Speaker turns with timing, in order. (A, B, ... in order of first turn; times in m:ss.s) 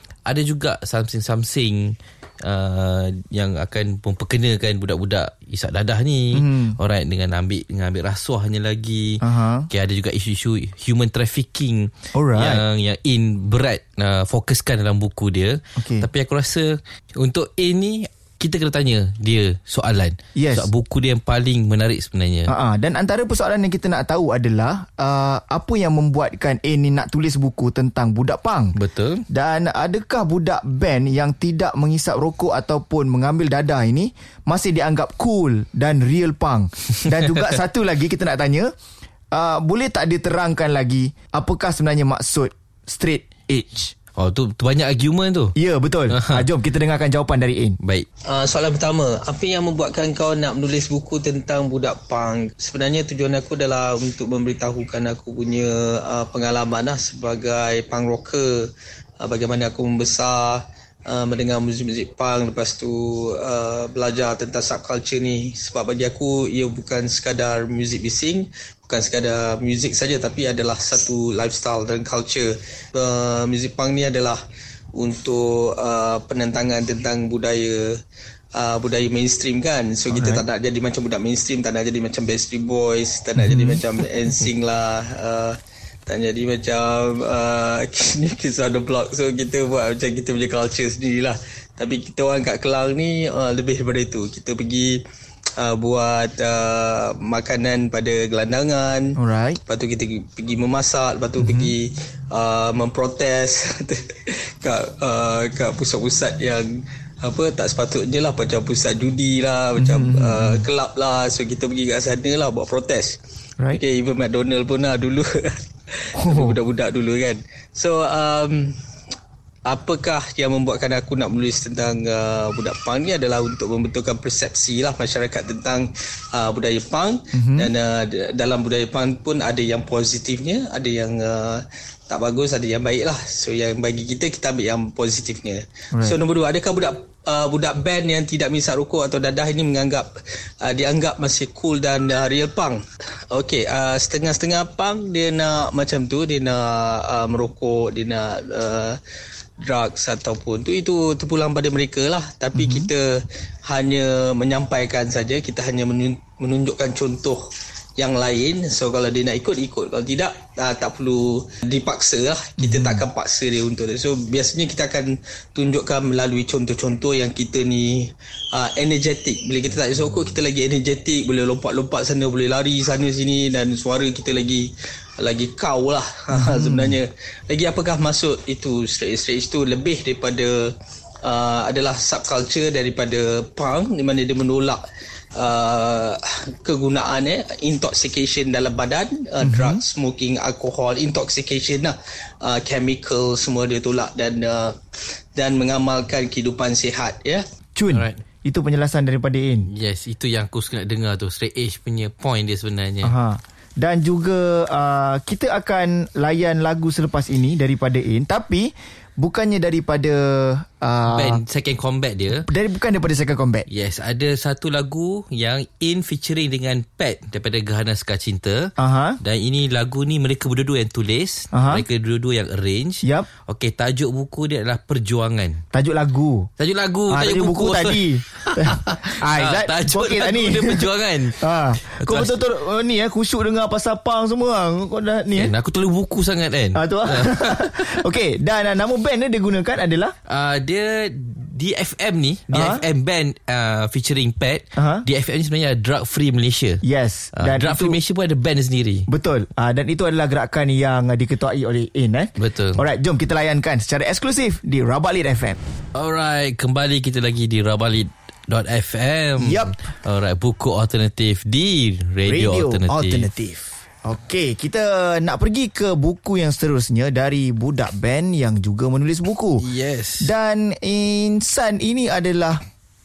0:00.2-0:22.5 A
0:06.3-0:06.8 B
0:09.2-0:09.7 B
0:12.1-0:12.6 B
0:15.8-0:16.1 B
0:20.3-0:20.7 B
0:22.5-0:28.7 B
0:28.7-0:29.2 A
0:29.3-0:38.7 B
0:37.0-0:37.5 A
0:39.3-0:43.9 B
0:44.2-0:45.5 A
0:45.6-0:47.8 B
0:46.1-0:46.4 A
0:48.2-1:14.4 C
1:14.9-1:18.0 C
1:18.5-1:35.0 C
1:20.1-1:20.4 B
1:23.4-1:23.8 B
1:35.6-1:53.2 C
1:39.2-1:39.6 B
1:41.4-1:41.7 B
1:49.8-1:50.7 B
1:53.7-1:58.8 C
1:56.2-1:56.6 B
1:59.6-2:20.1 C
2:07.3-2:07.7 B
2:20.6-2:29.0 C
2:29.6-2:37.4 C
2:32.5-2:32.9 B
2:38.0-3:00.7 C
2:42.6-2:43.0 B
2:56.3-2:57.0 B
3:01.2-3:04.8 C
3:05.4-3:14.8 C
3:09.4-3:09.8 B
3:15.4-3:17.4 C
3:17.7-3:19.7 B
3:17.9-3:18.2 A
3:19.7-3:23.1 A
3:23.0-3:31.4 B
3:31.1-3:32.4 A
3:32.4-3:33.6 B
3:33.7-3:45.6 A
3:38.8-3:39.2 B
3:41.5-3:41.8 B
3:45.7-3:46.5 B
3:46.6-3:52.4 A
3:47.1-3:55.5 B
3:55.4-3:58.0 A
3:56.7-4:00.1 B
4:00.3-4:06.8 A
4:02.5-4:02.8 B
4:04.8-4:05.0 B
4:06.8-4:08.0 B
4:07.3-4:09.1 A
4:09.1-4:15.6 B
4:12.4-4:12.8 A
4:15.9-4:23.3 A
4:19.4-4:19.7 B
4:22.2-4:29.6 B
4:29.6-4:30.3 A
4:30.2-4:32.6 B